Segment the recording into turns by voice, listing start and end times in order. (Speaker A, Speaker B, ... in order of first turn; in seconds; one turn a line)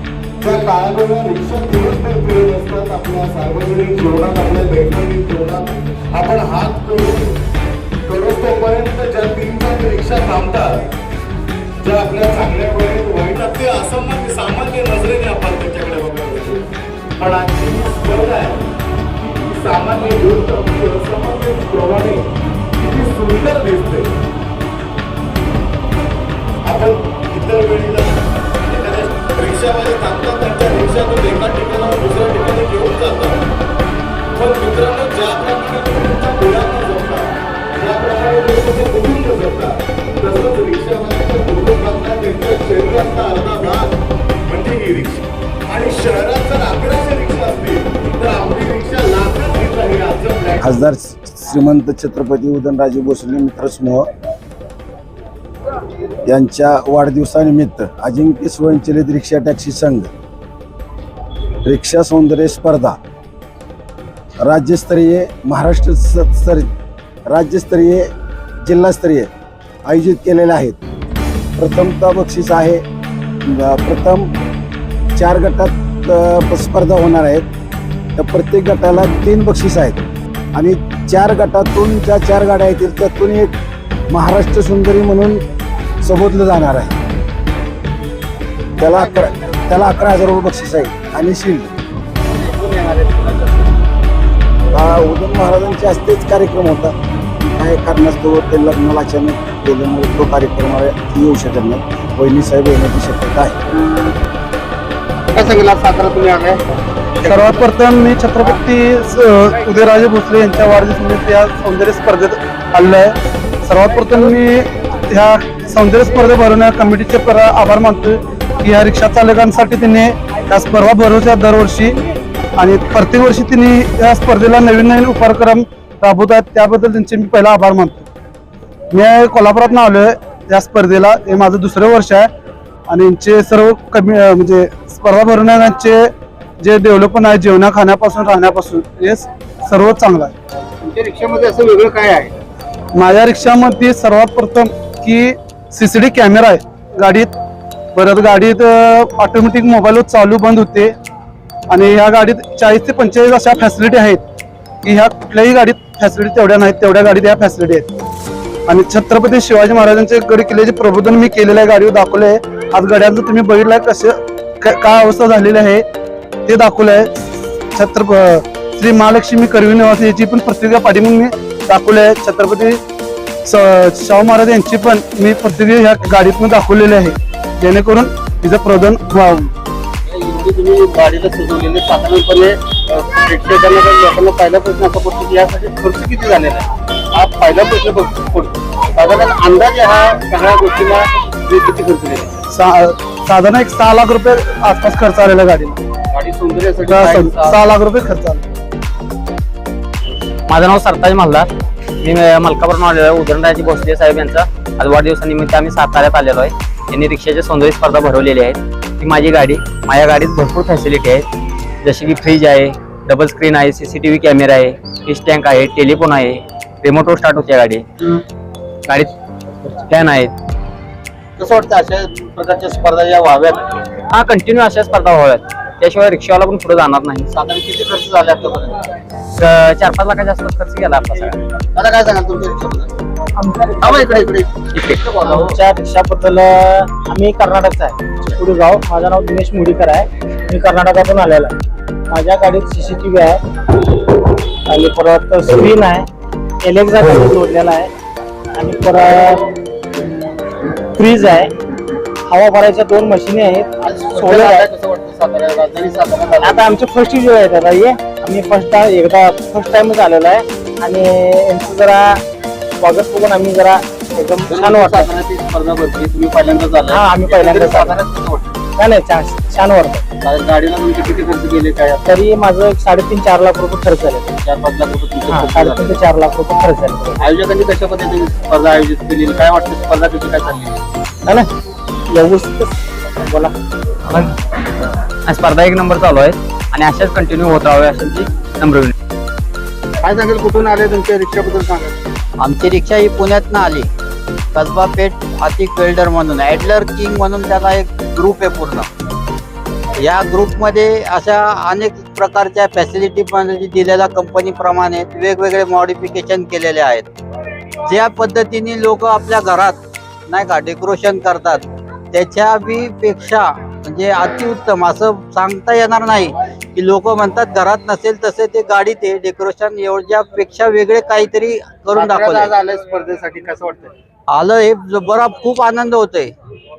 Speaker A: 0.4-7.4
Speaker A: 8.0-10.9
Speaker A: 11.8-16.6
Speaker A: 17.1-24.1
Speaker A: 26.6-33.4
Speaker A: 34.3-50.9
Speaker B: 50.6-54.1
Speaker B: 56.3-60.1
Speaker B: 61.6-63.0
Speaker B: 64.4-66.7
Speaker B: 67.3-68.1
Speaker B: 68.7-69.3
Speaker B: 69.9-70.8
Speaker B: 71.6-72.8
Speaker B: 73.5-74.3
Speaker B: 75.2-77.5
Speaker B: 78.2-80.0
Speaker B: 80.5-83.5
Speaker B: 84.1-85.4
Speaker B: 86.0-86.9
Speaker B: 88.8-91.7
Speaker C: 92.9-93.3
Speaker B: 94.7-103.5
Speaker C: 105.3-106.6
Speaker D: 107.2-113.1
Speaker D: 113.6-122.0
Speaker D: 122.6-128.1
Speaker D: 128.9-132.3
Speaker D: 132.9-136.1
Speaker D: 136.6-140.3
Speaker C: 140.8-142.3
Speaker D: 142.9-147.3
Speaker D: 147.9-150.9
Speaker D: 151.7-154.2
Speaker D: 154.8-157.9
Speaker D: 158.7-165.8
Speaker D: 166.5-167.1
Speaker D: 167.7-172.8
Speaker D: 173.4-179.5
Speaker C: 180.1-192.3
Speaker D: 192.5-195.8
Speaker C: 196.1-197.6
Speaker D: 196.9-198.4
Speaker E: 200.5-201.5
Speaker E: 202.0-211.2
Speaker E: 211.8-217.8
Speaker E: 218.9-219.1
Speaker E: 219.8-220.3
Speaker C: 221.4-223.6
Speaker E: 224.1-227.3
Speaker C: 227.3-228.8
Speaker E: 229.4-231.4
Speaker C: 231.7-232.9
Speaker F: 233.3-234.3
Speaker C: 233.8-235.6
Speaker E: 234.7-235.0
Speaker F: 235.2-241.5
Speaker F: 242.1-243.4
Speaker F: 244.7-246.1
Speaker F: 246.6-247.9
Speaker F: 248.6-249.5
Speaker F: 250.9-251.5
Speaker F: 252.2-254.7
Speaker C: 253.8-256.7
Speaker F: 256.4-262.2
Speaker F: 262.8-265.1
Speaker C: 264.5-268.5
Speaker F: 266.9-268.0
Speaker F: 268.8-270.0
Speaker C: 270.2-272.0
Speaker F: 272.0-274.4
Speaker C: 274.4-276.0
Speaker F: 275.3-277.2
Speaker C: 277.2-280.8
Speaker F: 282.1-283.5
Speaker E: 284.1-284.4
Speaker E: 285.2-288.9
Speaker C: 290.0-291.9
Speaker G: 292.4-293.9
Speaker G: 294.5-298.9
Speaker G: 300.0-307.1
Speaker G: 307.9-322.5
Speaker C: 321.9-323.9
Speaker G: 324.3-326.3